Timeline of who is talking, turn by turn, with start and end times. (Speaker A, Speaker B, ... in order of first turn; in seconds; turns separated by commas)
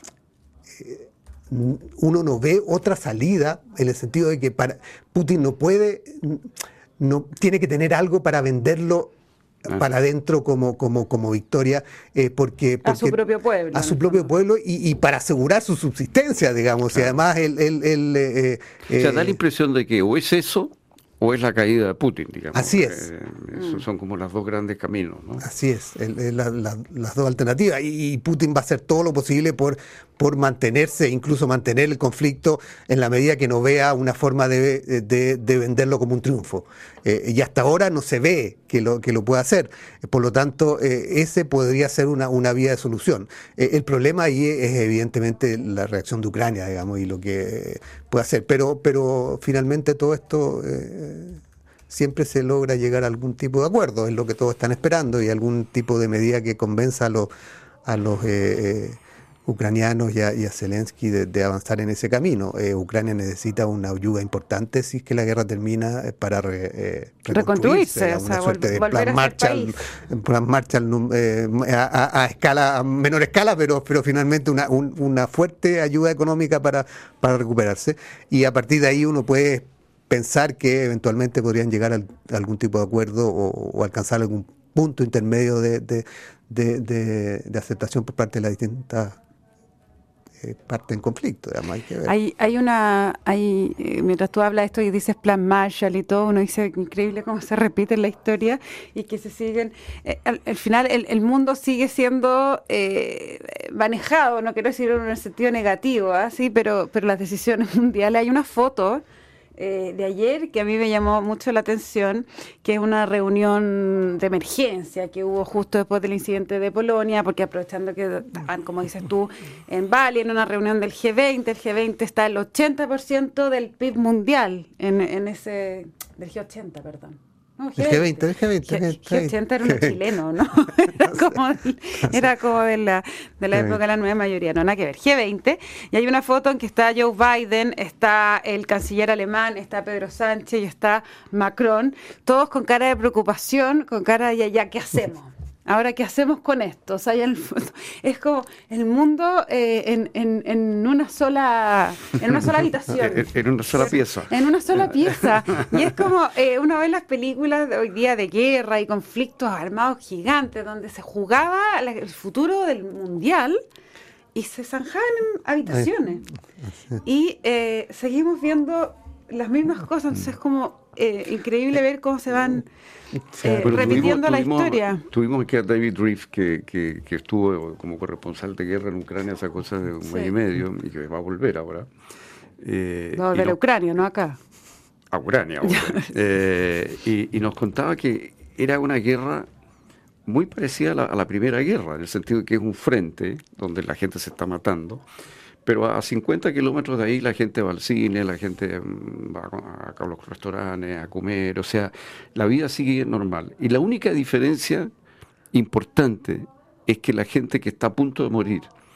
Speaker A: 0.8-9.1, Speaker A: 9.7-13.2, Speaker B: 12.8-14.3, Speaker A: 13.7-19.4, Speaker C: 16.9-17.1, Speaker C: 18.9-25.5, Speaker A: 22.5-23.1, Speaker B: 23.5-23.9, Speaker A: 25.4-57.3, Speaker A: 57.9-89.2, Speaker B: 67.3-69.8, Speaker A: 90.4-92.1, Speaker B: 92.0-109.0, Speaker B: 109.6-163.6, Speaker A: 127.8-130.0, Speaker A: 130.9-131.4, Speaker A: 133.5-133.8, Speaker C: 152.9-156.0, Speaker B: 164.3-166.2, Speaker A: 166.6-167.0, Speaker B: 167.0-172.7, Speaker A: 173.3-174.1, Speaker B: 173.4-175.0, Speaker C: 173.6-181.9, Speaker B: 180.0-180.3, Speaker C: 182.6-183.6, Speaker B: 183.2-184.4, Speaker C: 185.1-189.5, Speaker B: 185.7-186.1, Speaker C: 190.2-195.0, Speaker C: 195.7-204.9, Speaker C: 205.5-208.7